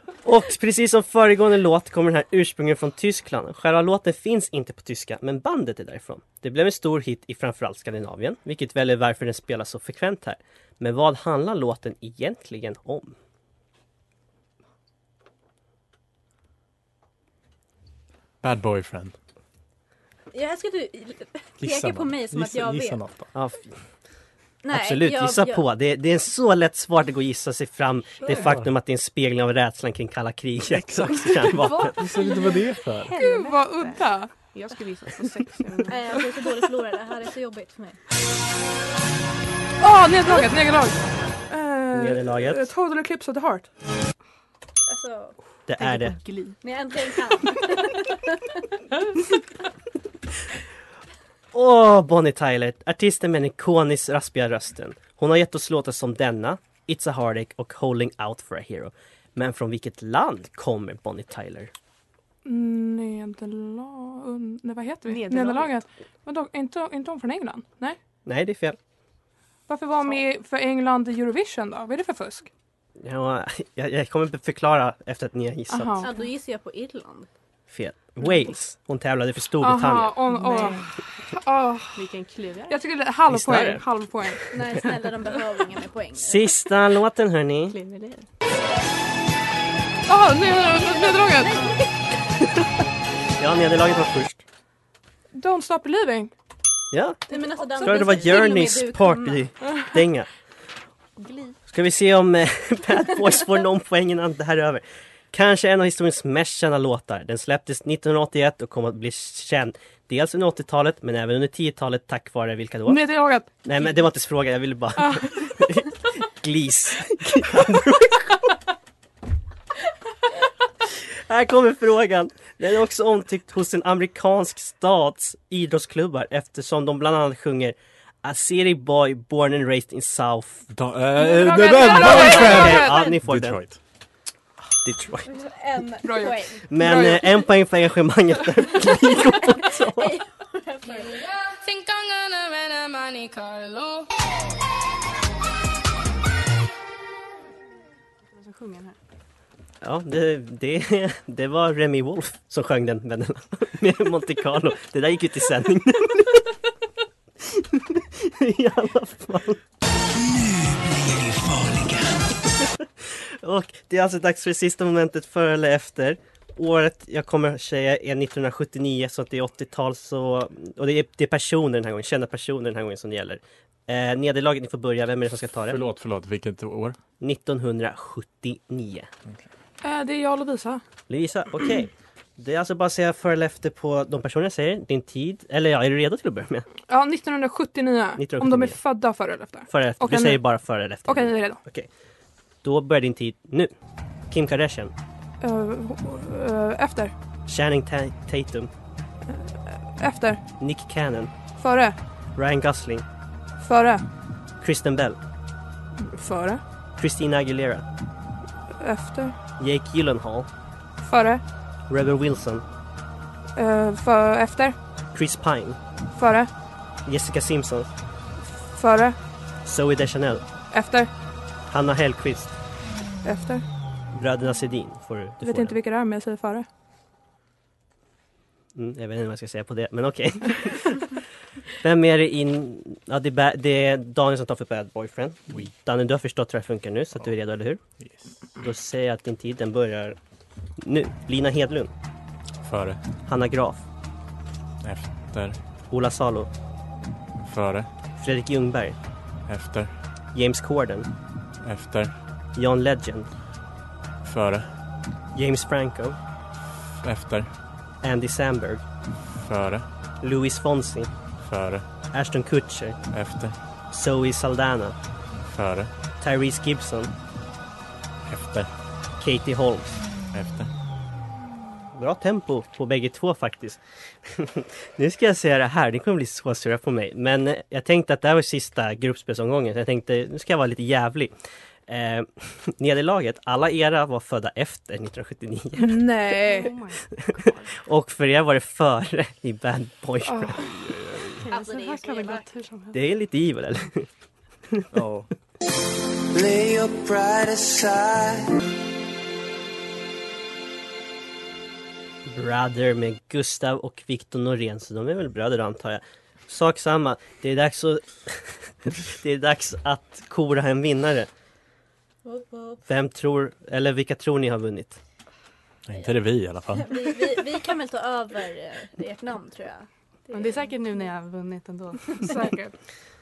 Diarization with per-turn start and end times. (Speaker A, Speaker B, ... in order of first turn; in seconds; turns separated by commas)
Speaker A: 0.2-13.2, Speaker B: 18.4-19.2, Speaker C: 20.3-23.0, Speaker B: 21.6-23.3, Speaker A: 23.4-23.8, Speaker C: 24.6-25.7, Speaker A: 24.7-32.0, Speaker B: 28.3-28.7, Speaker B: 30.7-33.1, Speaker D: 31.6-36.0, Speaker E: 33.1-34.3, Speaker C: 35.9-38.0, Speaker E: 39.8-43.7, Speaker A: 41.9-42.7, Speaker C: 44.9-45.4, Speaker A: 45.7-46.2, Speaker D: 45.8-46.6, Speaker C: 46.6-48.6, Speaker A: 51.5-61.7, Speaker E: 62.5-68.0, Speaker D: 65.1-65.7, Speaker A: 68.3-68.8, Speaker E: 69.7-72.5, Speaker A: 73.0-76.0, Speaker E: 75.7-76.1, Speaker C: 76.0-77.3, Speaker A: 77.7-80.2, Speaker E: 79.6-82.0, Speaker D: 80.3-80.9, Speaker D: 82.0-82.9, Speaker E: 82.7-84.4, Speaker A: 83.3-84.3, Speaker C: 84.5-86.5, Speaker A: 86.2-87.8, Speaker D: 87.7-88.3, Speaker E: 90.1-91.5, Speaker D: 90.7-91.5, Speaker C: 90.8-91.8, Speaker A: 93.4-94.4, Speaker E: 95.3-96.3, Speaker A: 96.9-100.3, Speaker C: 97.3-99.4, Speaker E: 97.8-98.2, Speaker A: 101.7-113.1, Speaker E: 112.9-113.5, Speaker A: 113.6-118.4, Speaker E: 115.0-115.3, Speaker A: 121.3-130.7, Speaker B: 130.7-133.8, Speaker E: 131.2-133.1, Speaker A: 131.8-133.6, Speaker C: 132.3-132.8, Speaker A: 134.8-135.3, Speaker C: 135.3-136.7, Speaker E: 136.0-137.4, Speaker A: 136.7-140.1, Speaker C: 139.4-141.2, Speaker F: 140.9-144.1, Speaker D: 148.3-149.0, Speaker A: 149.8-156.5, Speaker A: 157.4-159.6, Speaker A: 161.7-175.8, Speaker B: 175.7-177.0, Speaker A: 177.2-179.1, Speaker E: 179.8-180.8, Speaker A: 181.1-186.7, Speaker E: 186.9-190.5, Speaker A: 188.2-188.8, Speaker A: 189.7-191.9, Speaker E: 191.1-191.6, Speaker A: 192.6-193.7, Speaker A: 194.3-194.9, Speaker E: 195.4-197.1, Speaker A: 197.5-198.7, Speaker E: 199.3-200.4, Speaker A: 200.6-201.3, Speaker E: 201.6-202.0, Speaker A: 202.4-203.1, Speaker E: 203.6-204.1, Speaker A: 204.6-205.2, Speaker E: 206.0-206.6, Speaker A: 207.0-207.8, Speaker E: 208.8-209.4, Speaker A: 209.6-210.5, Speaker E: 211.0-211.4, Speaker A: 211.9-212.7, Speaker E: 213.6-214.8, Speaker A: 215.1-215.8, Speaker E: 216.1-216.5, Speaker A: 217.1-217.9, Speaker E: 218.5-219.2, Speaker A: 219.7-220.4, Speaker E: 220.7-221.1, Speaker A: 221.7-222.5, Speaker E: 223.2-223.6, Speaker A: 224.1-225.8, Speaker E: 225.4-226.7, Speaker A: 228.8-231.2, Speaker A: 231.8-237.8, Speaker B: 238.0-238.4, Speaker A: 238.6-240.2, Speaker A: 240.8-241.9, Speaker B: 242.6-243.0, Speaker A: 243.2-243.8, Speaker B: 244.8-245.6, Speaker A: 245.9-246.5, Speaker B: 247.4-247.9, Speaker A: 248.2-249.0, Speaker B: 249.5-249.9, Speaker A: 250.3-251.1, Speaker B: 251.6-252.1, Speaker A: 252.6-253.3, Speaker B: 254.2-254.7, Speaker A: 255.3-256.2, Speaker B: 257.0-257.5, Speaker A: 258.0-258.8, Speaker B: 259.2-259.9, Speaker A: 260.2-261.1, Speaker B: 261.4-261.9, Speaker A: 262.1-263.0, Speaker B: 263.1-263.6, Speaker A: 263.9-265.0, Speaker B: 265.4-265.9, Speaker A: 266.2-267.1, Speaker B: 268.3-268.7, Speaker A: 269.2-270.0, Speaker B: 270.3-270.7, Speaker A: 271.9-281.3, Speaker A: 281.9-286.1, Speaker E: 285.8-286.7, Speaker D: 286.4-287.7, Speaker A: 287.8-290.6, Speaker E: 290.3-290.6, Speaker B: 290.6-291.5, Speaker D: 291.4-293.0, Speaker C: 291.5-292.4, Speaker A: 292.9-294.1, Speaker B: 294.9-295.3, Speaker G: 296.3-298.6, Speaker A: 302.3-311.3, Speaker C: 312.2-312.8, Speaker A: 312.9-315.0, Speaker B: 315.9-317.0, Speaker C: 316.8-320.8, Speaker D: 320.3-322.5, Speaker E: 322.2-322.7